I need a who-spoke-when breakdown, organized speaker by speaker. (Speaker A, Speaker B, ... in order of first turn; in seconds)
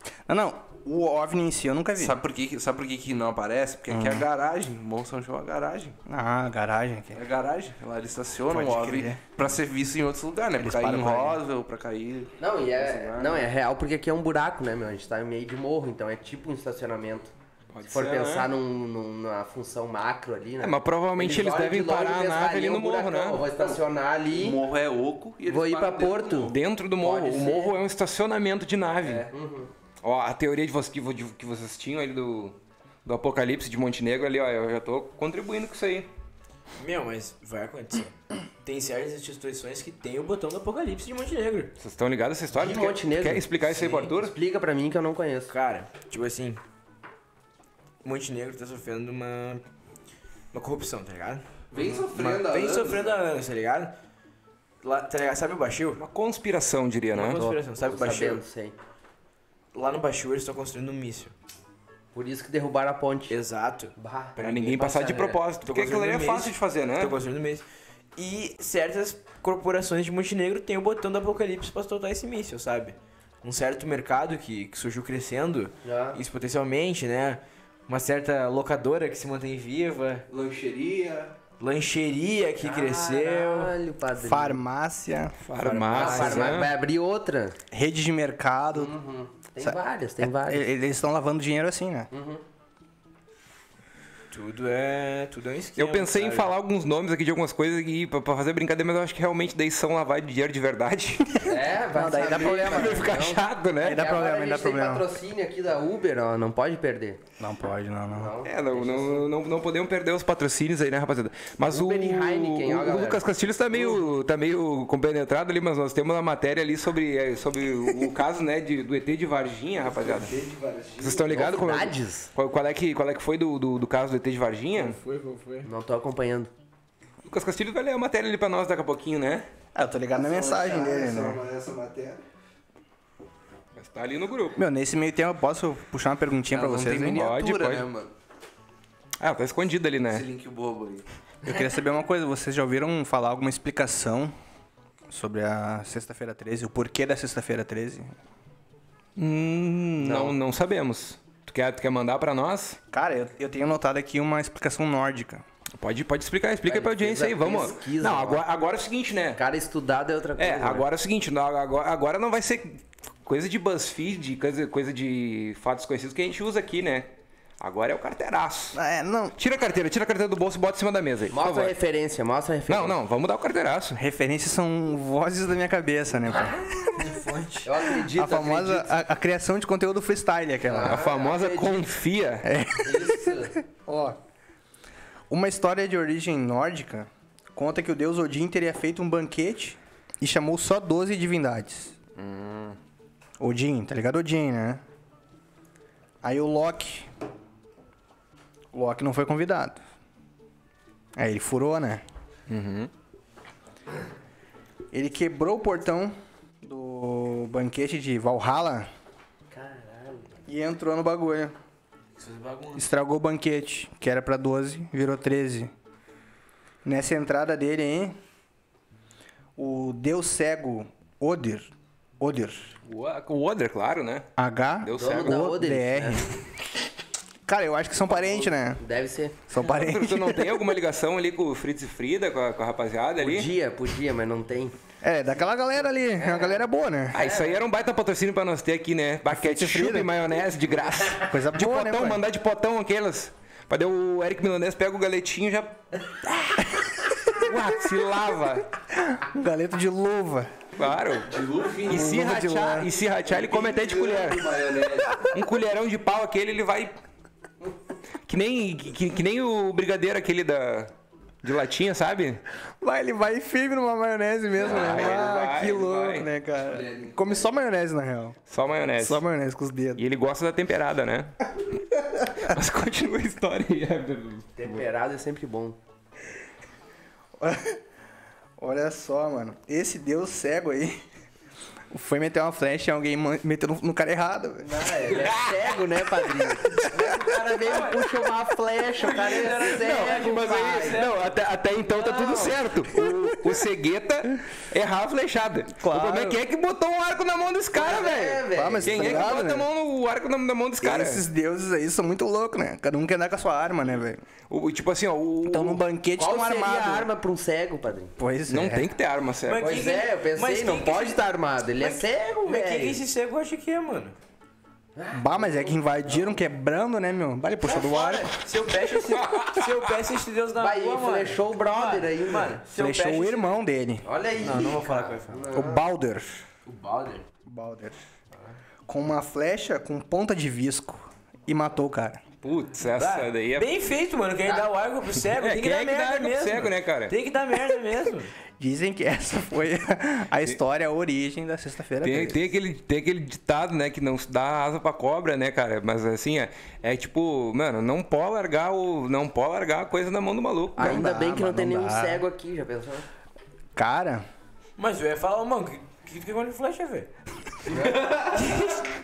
Speaker A: 0.3-2.2, 3.9-4.3, 6.1-7.2, 8.5-9.2, 10.6-11.4, 84.2-85.4, 87.7-88.9, 89.6-92.1, 101.9-103.2, 103.8-105.0, 107.4-108.3, 129.7-131.4, 134.6-137.2, 141.4-144.3, 145.1-148.1, 152.9-155.4, 168.7-169.4, 173.9-176.6, 178.0-181.0, 182.4-184.2, 185.3-191.9, 193.4-194.8, 196.2-197.1, 198.7-199.8, 201.2-202.0, 204.9-208.9, 210.5-211.5, 212.8-215.7, 216.8-218.2, 219.6-222.7, 224.4-226.4, 227.4-228.8, 229.5-230.7, 235.0-237.2, 239.3-240.1, 241.3-242.2, 248.9-250.5, 251.9-252.9, 262.8-268.4, 269.0-270.0, 277.4-277.8, 278.6-281.0, 281.9-284.9, 295.8-296.4, 298.5-299.7, 300.8-304.2, 305.5-307.1, 308.2-308.9, 315.1-318.4, 322.7-324.0, 325.5-326.4, 327.4-328.0, 328.9-332.2, 338.6-342.5, 350.8-352.2, 353.8-354.3
Speaker B: 2.0-6.0, 7.1-13.5, 24.3-26.6, 51.7-53.2, 80.3-81.3, 119.8-121.4, 130.2-132.2, 136.5-138.1, 140.1-141.1, 251.2-252.2, 253.2-255.2, 264.6-265.4, 266.7-267.5, 357.8-358.4
Speaker C: 12.4-17.3, 17.9-24.6, 25.5-27.7, 29.2-29.7, 42.5-43.5, 44.1-45.5, 57.4-58.8, 62.1-63.4, 64.0-64.4, 75.8-76.2, 82.6-84.6, 85.6-87.6, 88.7-90.6, 92.1-92.4, 101.4-107.2, 108.1-109.3, 111.7-113.2, 121.3-122.3, 125.6-126.5, 150.0-150.4, 156.7-158.4, 159.4-160.8, 171.3-173.0, 177.6-179.0, 180.7-181.9, 182.8-183.6, 209.5-210.4, 224.9-226.2, 228.1-229.4, 233.2-234.7, 236.2-236.6, 237.1-237.6, 274.6-275.8, 284.6-291.0, 291.8-292.6, 297.7-299.3, 306.2-308.1, 309.6-313.0, 314.9-315.8, 317.7-318.3, 320.6-322.6, 324.0-325.8, 350.8-353.1, 357.7-358.1
Speaker D: 17.7-18.5, 20.6-23.4, 26.5-29.3, 30.0-36.1, 41.8-44.3, 56.0-57.4, 64.4-67.2, 85.4-86.7, 95.8-101.4, 102.3-104.0, 108.4-120.3, 121.0-125.0, 127.2-129.5, 133.8-134.6, 136.7-137.9, 139.2-140.3, 149.2-152.8, 155.8-159.4, 160.4-168.8, 169.4-171.7, 172.7-174.0, 180.8-182.5, 192.2-192.8, 202.5-202.9, 222.8-224.3, 224.8-225.4, 229.6-233.5, 237.1-248.7, 250.8-251.3, 251.9-254.6, 255.3-256.9, 258.3-260.9, 261.4-262.4, 264.6-266.3, 268.5-269.2, 269.9-271.4, 272.3-274.8, 289.7-301.2, 304.5-305.8, 308.5-309.7, 319.1-319.7, 332.4-333.7, 335.2-337.1, 342.0-351.0
Speaker E: 36.8-41.7, 43.6-44.1, 45.5-46.6, 48.0-49.6, 50.5-51.4, 52.1-53.9, 54.8-56.0, 57.1-58.4, 59.7-61.3, 63.3-67.6, 68.2-80.2, 81.6-83.7, 85.9-86.5, 94.3-96.5, 124.8-125.7, 176.8-177.7, 212.2-212.9, 287.5-288.1, 288.9-291.3, 309.4-311.2, 311.8-314.1, 318.0-323.6, 324.4-325.6, 326.6-327.2, 332.9-338.3, 354.8-357.1, 358.4-358.9